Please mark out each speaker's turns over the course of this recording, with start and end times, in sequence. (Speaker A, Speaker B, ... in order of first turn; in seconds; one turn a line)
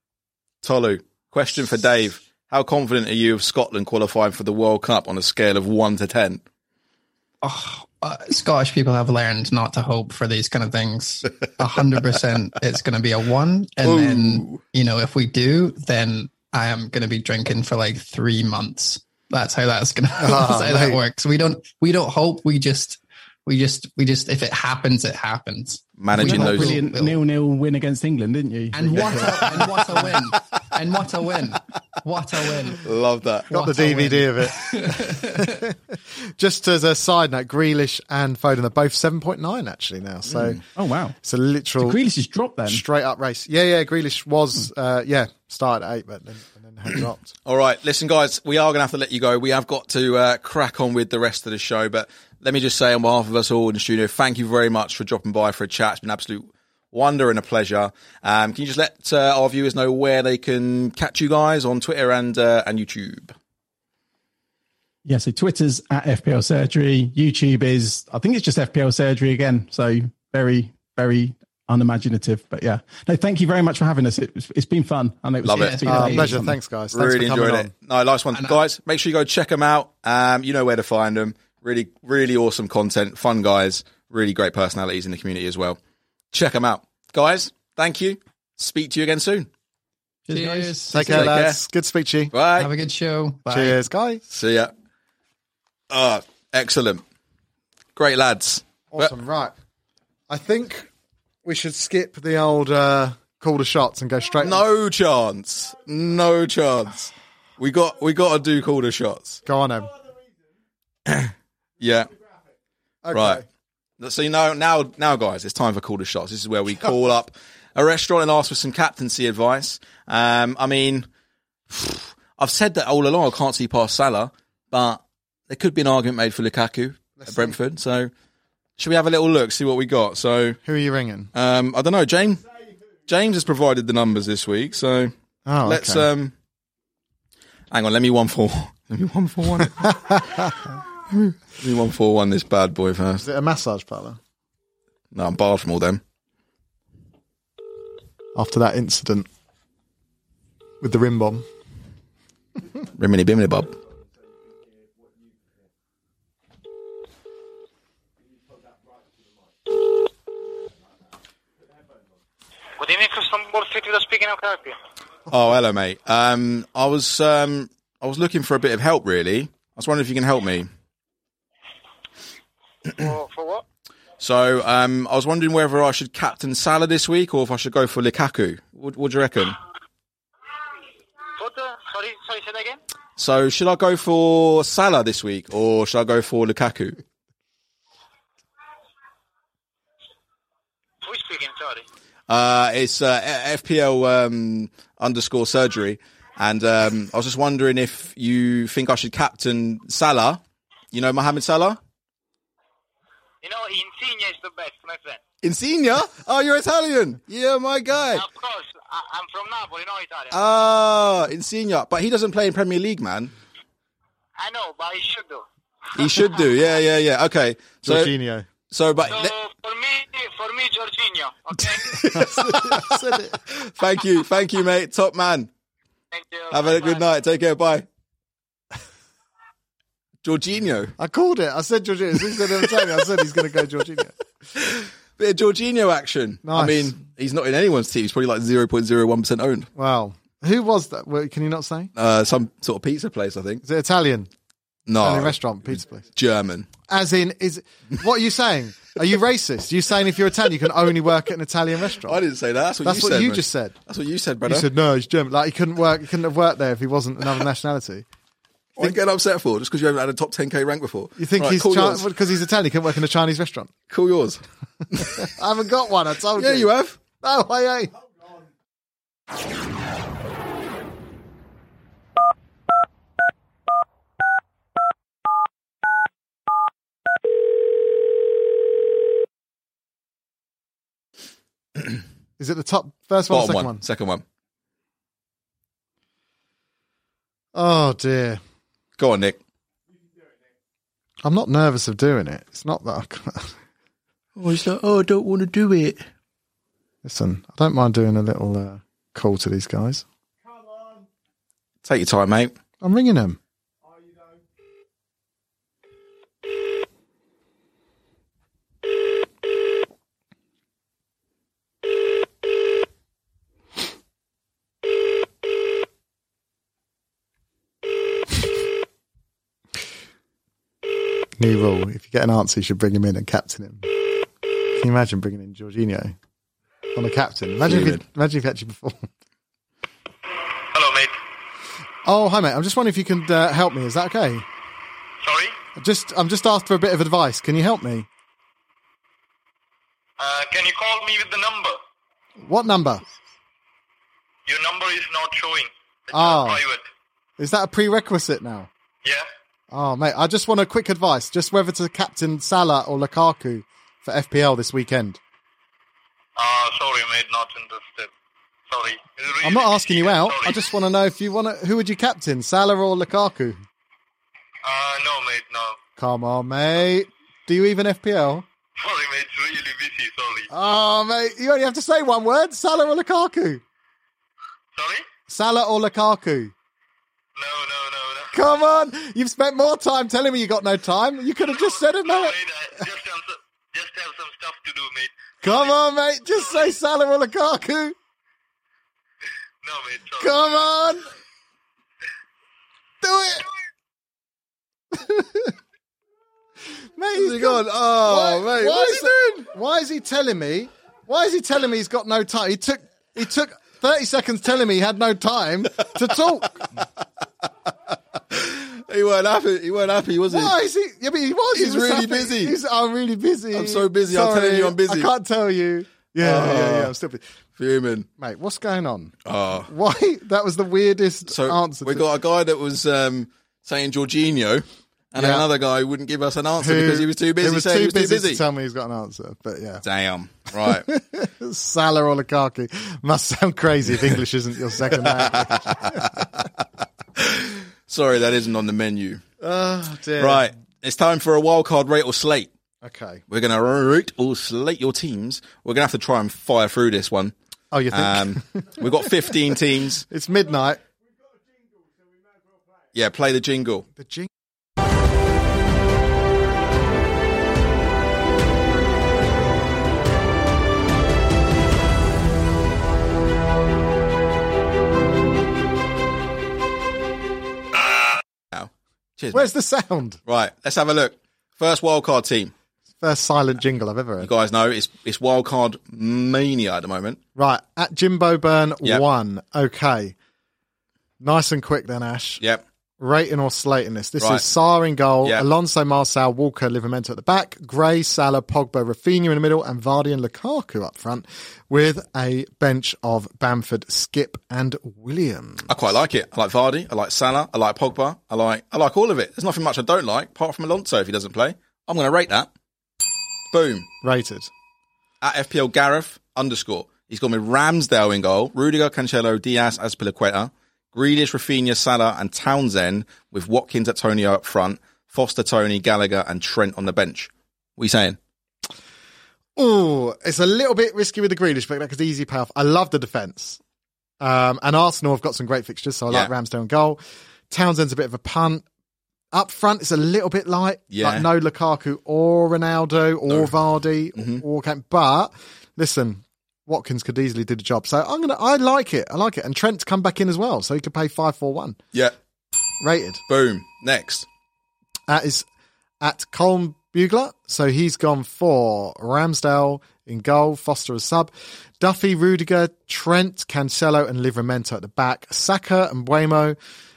Speaker A: 0.6-6.4
Speaker B: 7.4-27.2
Speaker A: 13.8-14.6
Speaker C: 20.2-21.0
Speaker A: 26.0-26.8
Speaker D: 26.1-30.1
Speaker B: 28.7-32.8
Speaker A: 32.8-33.5
Speaker B: 33.5-35.6
Speaker C: 33.5-35.7
Speaker C: 36.4-40.6
Speaker A: 40.3-40.6
Speaker D: 40.8-41.2
Speaker C: 41.2-42.0
Speaker D: 41.8-42.8
Speaker C: 42.7-47.3
Speaker A: 47.5-63.4
Speaker D: 65.0-76.6
Speaker A: 75.4-75.8
Speaker B: 75.5-76.3
Speaker C: 75.9-77.7
Speaker A: 76.9-85.8
Speaker B: 78.3-78.6
Speaker A: 86.3-89.5
Speaker D: 90.3-91.2
Speaker B: 90.3-91.3
Speaker C: 90.9-92.3
Speaker A: 91.1-91.6
Speaker A: 92.3-92.7
Speaker B: 92.6-93.8
Speaker C: 93.5-94.2
Speaker A: 94.3-94.7
Speaker A: 95.9-97.0
Speaker A: 98.0-99.1
Speaker C: 98.9-99.5
Speaker C: 100.3-100.9
Speaker C: 101.5-104.6
Speaker A: 104.4-109.4
Speaker C: 109.5-110.0
Speaker A: 111.1-112.1
Speaker C: 113.0-113.5
Speaker A: 113.1-113.4
Speaker A: 114.0-121.1
Speaker A: 121.7-128.1
Speaker C: 127.2-127.5
Speaker A: 128.8-130.6
Speaker C: 130.7-131.3
Speaker A: 131.3-132.4
Speaker A: 133.1-136.3
Speaker C: 135.5-136.1
Speaker A: 137.7-140.4
Speaker C: 140.1-140.5
Speaker A: 141.1-143.2
Speaker C: 143.2-144.2
Speaker A: 145.1-146.0
Speaker C: 148.3-149.3
Speaker C: 150.8-151.5
Speaker A: 152.9-153.8
Speaker E: 162.8-164.8
Speaker A: 165.3-170.7
Speaker E: 172.9-173.6
Speaker A: 174.2-179.6
Speaker E: 181.4-182.8
Speaker A: 183.2-187.0
Speaker E: 191.0-191.8
Speaker A: 192.3-200.4
Speaker A: 200.9-201.8
Speaker E: 203.4-205.2
Speaker A: 205.4-208.2
Speaker E: 208.1-210.4
Speaker A: 210.3-213.3
Speaker E: 214.4-215.5
Speaker A: 215.9-218.1
Speaker C: 217.8-218.5
Speaker A: 218.7-219.3
Speaker E: 219.1-222.0
Speaker A: 221.8-225.5
Speaker C: 222.0-223.4
Speaker E: 226.1-227.1
Speaker A: 226.5-227.9
Speaker A: 230.2-230.9
Speaker C: 231.0-234.2
Speaker A: 232.3-232.9
Speaker A: 234.6-239.7
Speaker C: 236.4-237.0
Speaker C: 239.8-241.9
Speaker A: 242.0-243.6
Speaker C: 243.6-244.3
Speaker A: 244.9-245.4
Speaker C: 245.0-246.1
Speaker A: 246.1-246.7
Speaker C: 246.9-252.2
Speaker A: 252.0-254.7
Speaker C: 252.8-253.7
Speaker C: 254.5-258.1
Speaker A: 258.8-262.1
Speaker C: 261.2-263.7
Speaker A: 263.9-265.2
Speaker C: 265.0-267.9
Speaker A: 266.4-267.0
Speaker C: 282.4-283.8
Speaker A: 283.3-284.2
Speaker C: 287.5-288.4
Speaker A: 289.0-289.4
Speaker C: 291.2-293.6
Speaker A: 294.4-296.1
Speaker C: 297.0-300.0
Speaker A: 301.8-302.6
Speaker C: 302.8-303.4
Speaker C: 321.4-323.9
Speaker C: 324.8-326.1
Speaker C: 326.9-329.1
Speaker A: 327.6-328.0
Speaker E: 330.7-331.2
Speaker C: 332.1-334.5
Speaker E: 335.2-335.6
Speaker C: 335.8-338.1
Speaker E: 340.2-341.8
Speaker C: 342.4-343.0
Speaker E: 344.5-346.9
Speaker C: 346.1-346.6
Speaker C: 347.4-348.7
Speaker C: 349.7-355.2
Speaker E: 356.4-358.1
Speaker E: 358.7-360.6
Speaker C: 359.4-363.6
Speaker E: 364.6-365.8
Speaker C: 366.0-368.5
Speaker E: 368.8-370.5
Speaker C: 370.5-373.6
Speaker E: 374.8-375.1
Speaker C: 375.3-376.5
Speaker E: 377.4-378.4
Speaker C: 378.3-382.4
Speaker E: 381.4-385.7
Speaker C: 385.4-387.9
Speaker E: 386.3-386.7
Speaker E: 389.6-390.4
Speaker C: 390.2-391.1
Speaker C: 393.0-393.5
Speaker C: 394.9-395.5
Speaker C: 397.0-406.7
Speaker A: 397.1-399.4
Speaker A: 408.3-410.6
Speaker C: 410.3-417.2
Speaker A: 411.5-412.6
Speaker A: 413.5-415.1
Speaker A: 416.2-416.9
Speaker A: 417.6-418.1
Speaker C: 418.2-419.1
Speaker A: 419.2-419.7
Speaker C: 419.6-422.1
Speaker A: 421.3-428.4
Speaker C: 425.2-425.5
Speaker C: 426.6-429.8
Speaker A: 429.8-430.9
Speaker C: 430.6-436.2
Speaker A: 434.9-436.4
Speaker A: 437.2-439.2
Speaker C: 439.4-440.5
Speaker A: 440.2-442.5
Speaker C: 442.8-443.2
Speaker A: 443.3-447.3
Speaker C: 447.7-448.9
Speaker A: 447.9-450.1
Speaker C: 450.1-450.8
Speaker A: 452.9-453.9
Speaker C: 454.0-454.3
Speaker A: 468.5-469.5
Speaker C: 469.3-470.2
Speaker A: 470.3-472.5
Speaker C: 473.0-474.3
Speaker A: 474.2-477.2
Speaker C: 477.4-480.1
Speaker C: 481.2-482.4
Speaker C: 483.0-495.7
Speaker A: 484.2-484.4
Speaker A: 495.7-502.5
Speaker A: 503.5-503.9
Speaker C: 504.0-504.5
Speaker A: 505.2-518.2
Speaker C: 519.6-523.6
Speaker C: 524.2-528.6
Speaker C: 529.3-541.8
Speaker A: 530.9-531.3
Speaker A: 534.2-534.4
Speaker C: 542.8-543.2
Speaker A: 543.3-544.3
Speaker C: 545.1-545.5
Speaker C: 546.0-556.6